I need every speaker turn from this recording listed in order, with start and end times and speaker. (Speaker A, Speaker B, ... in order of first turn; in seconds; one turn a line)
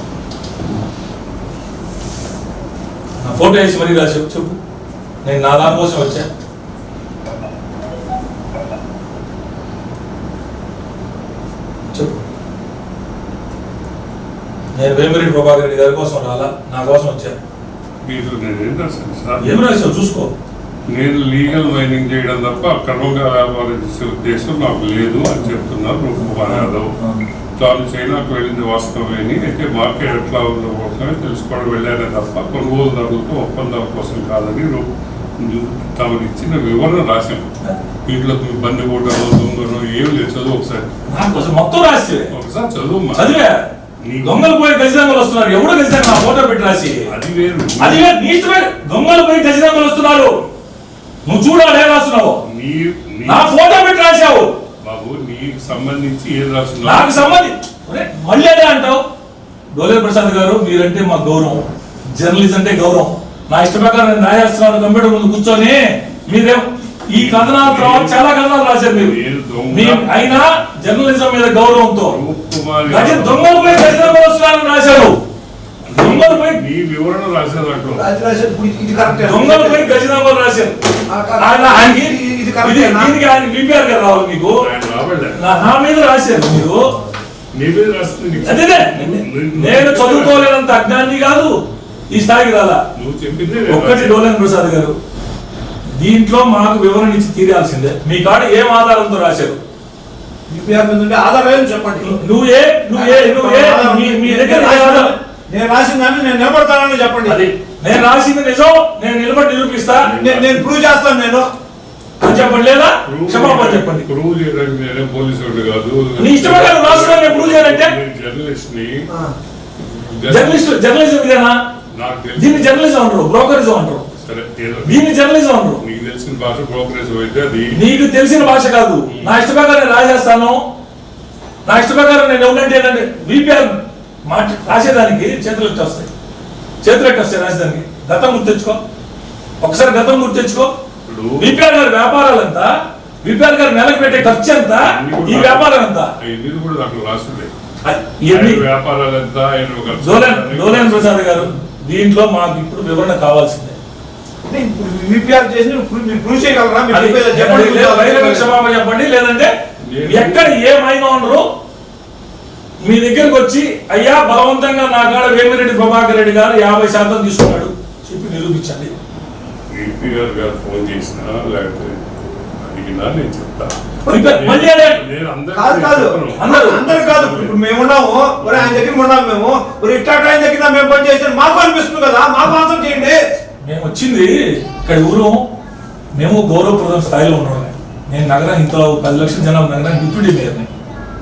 Speaker A: 3.2-4.6
Speaker A: 5.2-6.3
Speaker A: 14.7-17.4
Speaker B: 18.0-19.6
Speaker A: 19.4-20.3
Speaker B: 20.9-26.9
Speaker A: 26.4-27.2
Speaker B: 27.6-37.5
Speaker B: 38.0-40.9
Speaker A: 41.1-42.3
Speaker B: 42.3-43.3
Speaker A: 43.1-43.6
Speaker B: 44.0-44.5
Speaker A: 44.2-47.1
Speaker B: 47.1-48.0
Speaker A: 47.8-50.3
Speaker A: 51.2-52.4
Speaker B: 52.5-53.5
Speaker A: 53.2-54.5
Speaker B: 54.8-57.4
Speaker A: 56.8-59.0
Speaker A: 59.7-69.1
Speaker B: 67.1-68.2
Speaker B: 68.9-70.2
Speaker A: 69.7-72.2
Speaker B: 71.9-74.2
Speaker A: 72.9-75.2
Speaker B: 75.9-78.1
Speaker A: 75.9-76.6
Speaker C: 78.0-79.9
Speaker A: 79.2-80.8
Speaker C: 81.1-83.1
Speaker A: 81.4-84.7
Speaker B: 84.6-85.4
Speaker A: 85.4-86.8
Speaker B: 87.5-90.5
Speaker A: 88.4-91.5
Speaker A: 92.1-92.8
Speaker B: 93.0-94.2
Speaker A: 93.7-95.0
Speaker A: 96.0-99.6
Speaker C: 100.5-102.1
Speaker A: 102.0-105.1
Speaker C: 102.9-107.4
Speaker A: 107.2-110.1
Speaker C: 110.0-111.5
Speaker B: 110.2-110.5
Speaker A: 112.2-114.1
Speaker B: 113.0-119.1
Speaker A: 116.2-118.0
Speaker C: 119.1-119.3
Speaker B: 119.8-120.7
Speaker A: 120.3-121.6
Speaker B: 121.9-122.8
Speaker A: 122.3-124.1
Speaker B: 124.2-125.0
Speaker A: 124.8-125.8
Speaker B: 125.8-127.8
Speaker A: 127.7-130.6
Speaker B: 129.1-129.3
Speaker A: 131.6-136.1
Speaker A: 136.8-138.8
Speaker A: 139.6-140.7
Speaker B: 141.1-141.6
Speaker A: 141.4-142.7
Speaker A: 143.2-146.1
Speaker B: 144.8-147.5
Speaker A: 147.8-148.6
Speaker B: 148.3-151.4
Speaker A: 150.0-153.8
Speaker C: 154.5-158.5
Speaker A: 156.9-159.5
Speaker B: 159.8-160.6
Speaker A: 160.1-161.5
Speaker A: 162.8-168.9
Speaker B: 169.7-172.0
Speaker B: 172.6-177.6
Speaker C: 174.1-174.3
Speaker A: 174.1-175.0
Speaker C: 175.5-183.2
Speaker A: 176.4-176.8
Speaker A: 183.6-185.4
Speaker A: 186.1-190.7